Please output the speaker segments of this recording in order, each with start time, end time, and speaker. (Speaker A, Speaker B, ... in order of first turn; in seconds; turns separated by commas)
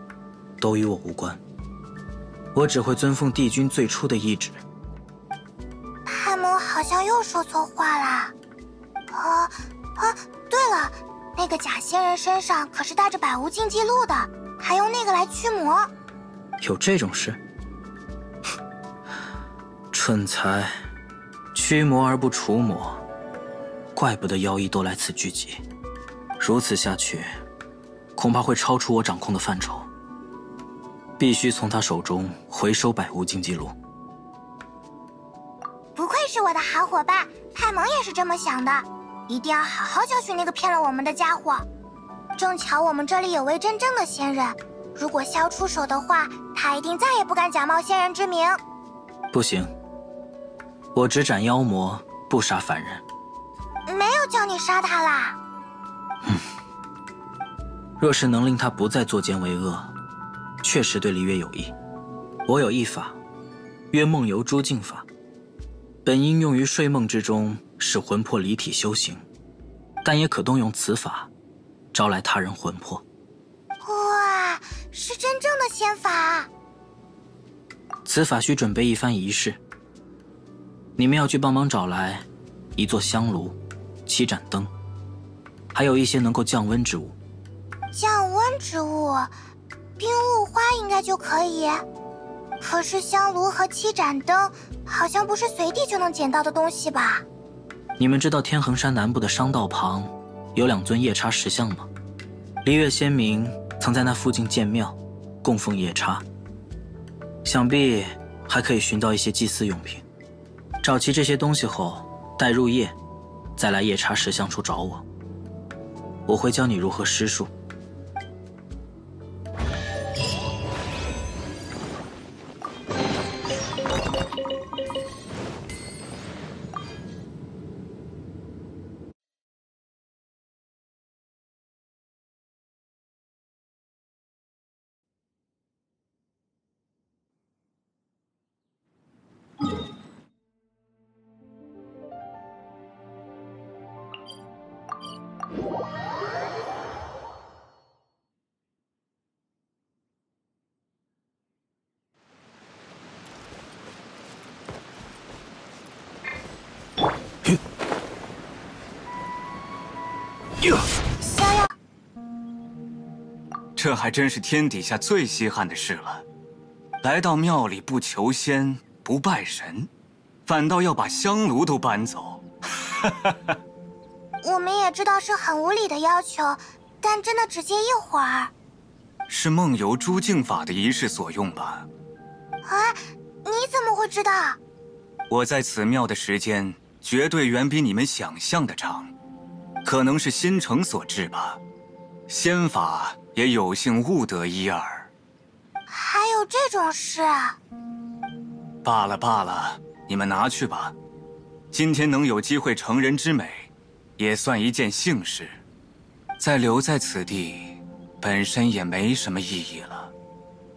Speaker A: 0.6-1.4, Speaker A: 2.5-4.6, Speaker B: 6.0-8.3, Speaker B: 9.1-15.9, Speaker A: 16.6-17.4, Speaker A: 19.9-20.8, Speaker A: 21.5-23.0, Speaker A: 23.9-25.6, Speaker A: 26.4-27.4, Speaker A: 28.1-29.9, Speaker A: 31.2-33.8, Speaker B: 36.0-41.7, Speaker B: 42.4-48.6, Speaker A: 49.3-49.7, Speaker A: 50.9-53.0, Speaker B: 53.9-55.4, Speaker A: 58.0-59.9, Speaker A: 60.6-61.7, Speaker A: 62.5-63.2, Speaker A: 63.9-65.0, Speaker A: 66.0-69.2, Speaker A: 70.0-71.3, Speaker A: 71.9-73.0, Speaker B: 73.8-76.5, Speaker A: 78.0-79.6, Speaker A: 81.0-84.7, Speaker A: 85.7-87.2, Speaker B: 87.9-89.3, Speaker B: 90.0-91.8, Speaker B: 92.6-97.2, Speaker A: 98.0-101.9, Speaker A: 102.6-106.2, Speaker A: 107.4-110.0, Speaker A: 110.8-113.0, Speaker A: 113.5-115.0, Speaker A: 116.2-117.5, Speaker B: 161.2-161.7, Speaker C: 163.8-166.2, Speaker C: 167.0-169.9, Speaker C: 170.4-173.3, Speaker B: 174.4-178.5, Speaker C: 179.3-181.9, Speaker B: 182.6-184.6, Speaker C: 185.3-189.1, Speaker C: 189.8-191.6, Speaker C: 192.3-195.1, Speaker B: 195.9-197.6, Speaker C: 198.8-200.9, Speaker C: 201.7-205.6, Speaker C: 206.4-210.1